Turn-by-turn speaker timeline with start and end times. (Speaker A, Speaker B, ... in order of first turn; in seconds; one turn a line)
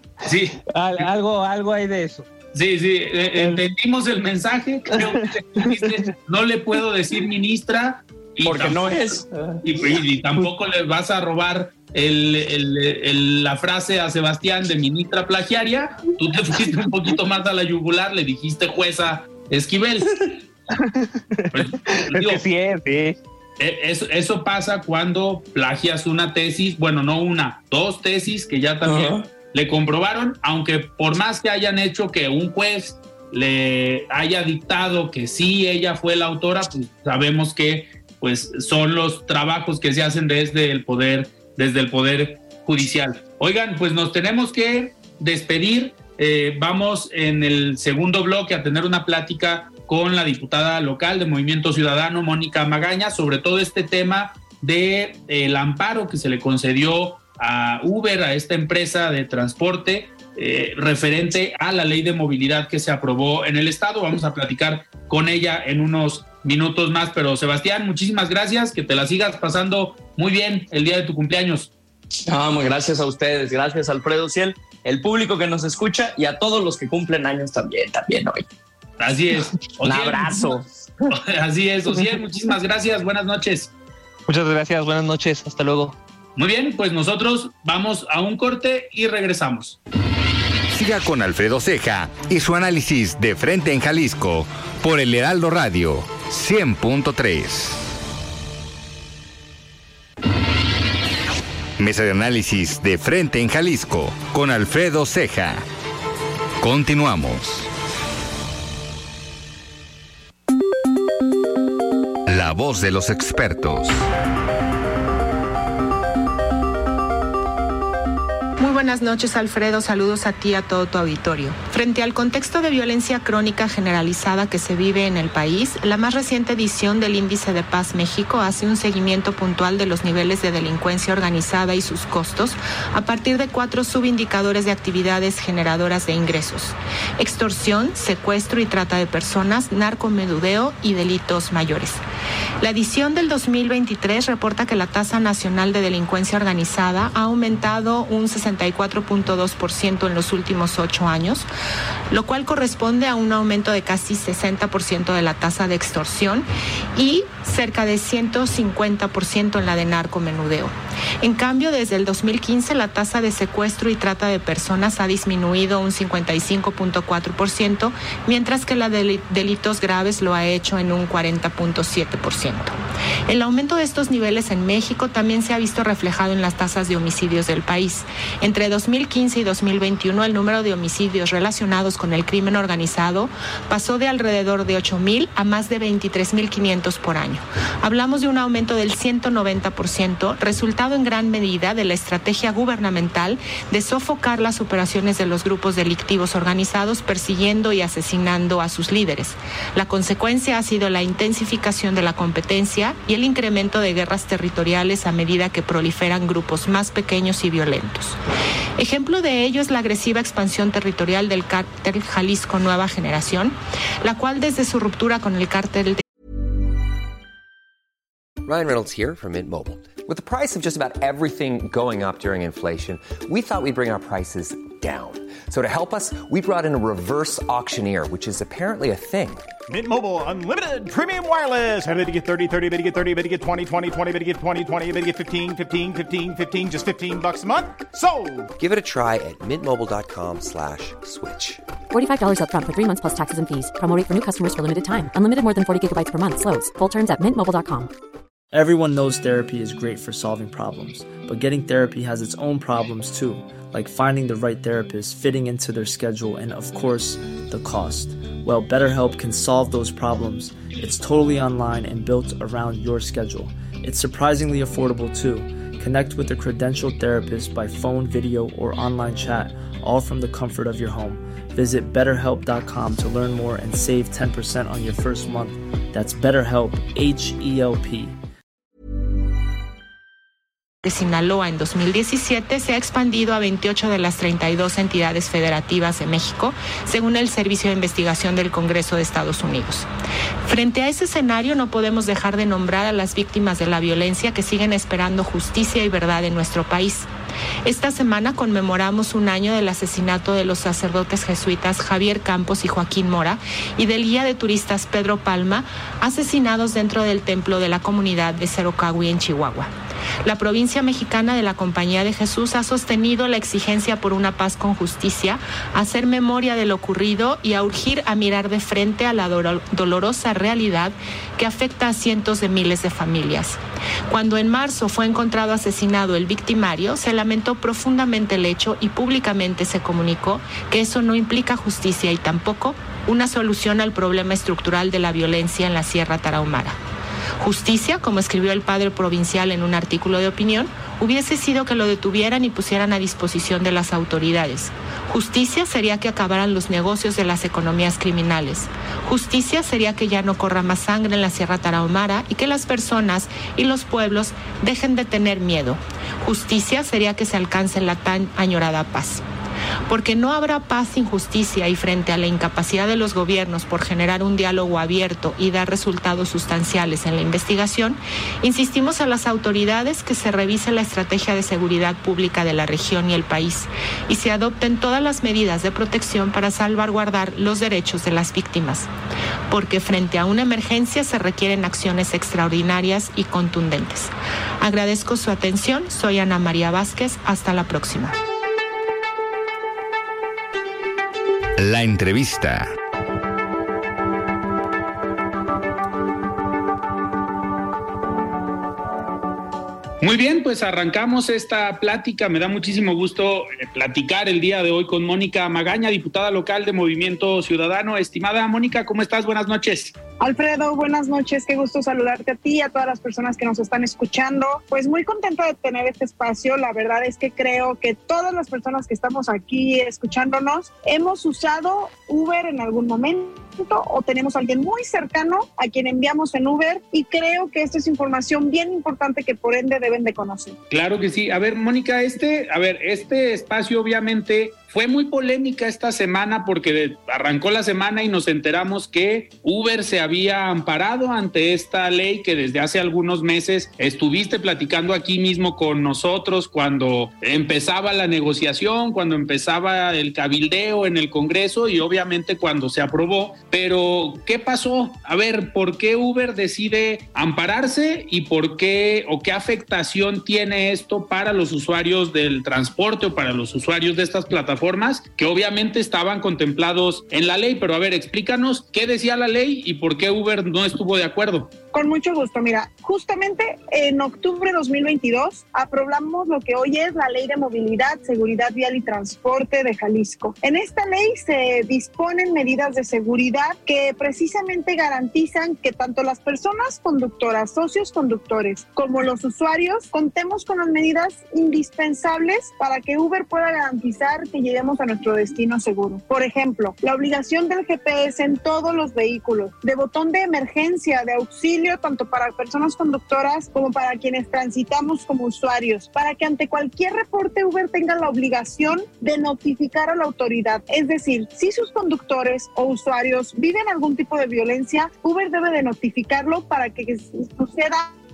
Speaker A: 0.2-1.1
Speaker B: 0.7-2.3
Speaker A: 2.5-20.4
Speaker B: 3.4-3.6
Speaker B: 4.9-5.6
Speaker C: 8.4-9.3
Speaker B: 20.8-23.2
Speaker A: 21.5-22.4
Speaker A: 23.6-71.7
Speaker C: 28.9-29.3
Speaker C: 72.3-78.5
Speaker A: 79.0-83.7
Speaker C: 79.8-80.7
Speaker B: 84.3-86.0
Speaker A: 86.4-89.8
Speaker D: 90.7-97.9
Speaker D: 101.8-105.6
Speaker D: 106.6-107.7
Speaker D: 112.3-114.0
Speaker E: 118.6-142.0
Speaker E: 142.6-151.5
Speaker E: 152.1-172.8
Speaker E: 173.3-208.2
Speaker E: 208.8-216.0
Speaker F: 218.4-229.4
Speaker G: 229.7-238.5
Speaker F: 238.6-241.6
Speaker H: 241.9-247.9
Speaker I: 248.5-278.1
Speaker E: 280.8-289.9
Speaker E: 290.4-297.1
Speaker E: 297.6-309.7
Speaker E: 310.2-336.8
Speaker E: 337.4-359.2
Speaker E: 359.9-378.9
Speaker E: 379.5-388.2
Speaker D: 391.6-392.7
Speaker A: 400.0-409.9
Speaker J: 410.2-430.6
Speaker A: 430.7-471.5
Speaker J: 471.7-517.9